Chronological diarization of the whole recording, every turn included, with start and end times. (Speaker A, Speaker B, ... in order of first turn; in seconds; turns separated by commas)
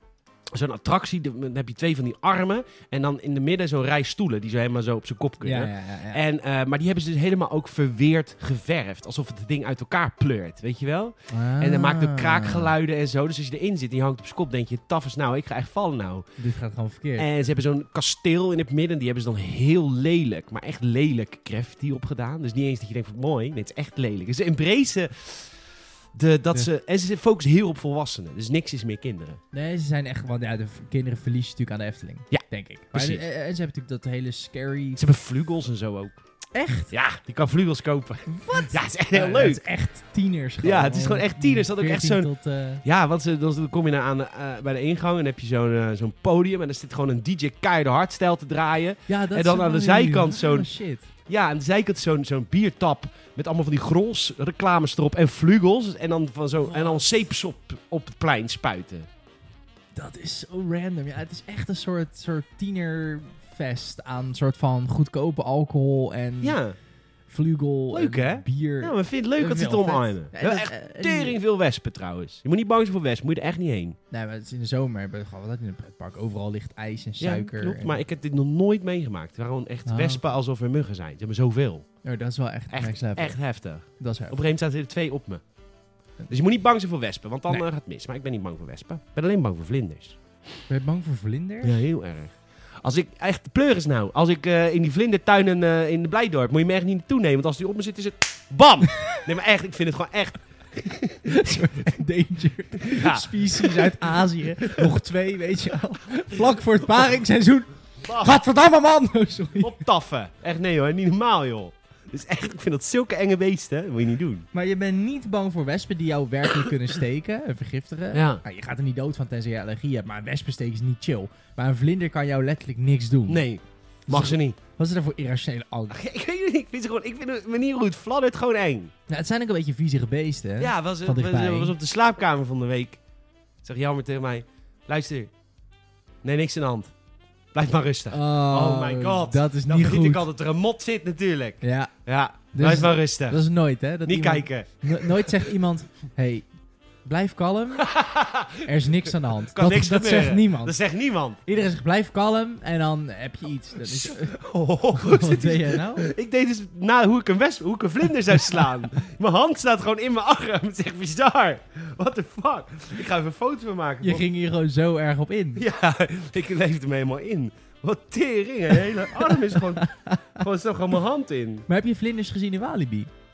Speaker A: 0.5-16.3, Speaker B: 5.4-6.2, Speaker B: 11.3-12.7, Speaker B: 16.4-17.3, Speaker A: 17.1-29.4, Speaker B: 29.5-35.0, Speaker A: 32.3-33.2, Speaker A: 35.0-36.2, Speaker B: 36.5-36.9, Speaker A: 36.9-39.7, Speaker B: 38.2-42.8, Speaker A: 40.6-59.1, Speaker B: 49.1-51.1, Speaker B: 56.7-57.0, Speaker B: 59.9-71.4, Speaker A: 66.4-66.8, Speaker A: 67.9-74.0, Speaker B: 74.1-78.0, Speaker A: 77.2-81.9, Speaker B: 79.8-80.2, Speaker B: 82.0-84.5, Speaker A: 82.7-85.5, Speaker A: 86.3-90.2, Speaker B: 90.7-91.8, Speaker A: 91.6-101.9, Speaker B: 101.2-109.8, Speaker A: 102.8-104.9, Speaker A: 108.0-108.4, Speaker A: 109.6-114.5, Speaker B: 114.5-123.5, Speaker A: 118.1-118.4, Speaker A: 123.3-124.6, Speaker B: 124.1-126.0, Speaker A: 125.9-128.9, Speaker B: 129.1-131.7, Speaker A: 130.6-133.0, Speaker A: 133.6-135.3, Speaker A: 136.2-136.9, Speaker A: 137.5-143.4, Speaker B: 138.1-140.3, Speaker B: 141.6-141.9, Speaker B: 142.5-148.1, Speaker A: 144.0-145.5, Speaker A: 147.8-151.4, Speaker B: 148.6-150.8, Speaker B: 151.4-156.1, Speaker A: 153.8-164.2, Speaker B: 164.0-165.7, Speaker A: 165.6-171.7, Speaker B: 169.2-170.4, Speaker B: 171.7-173.1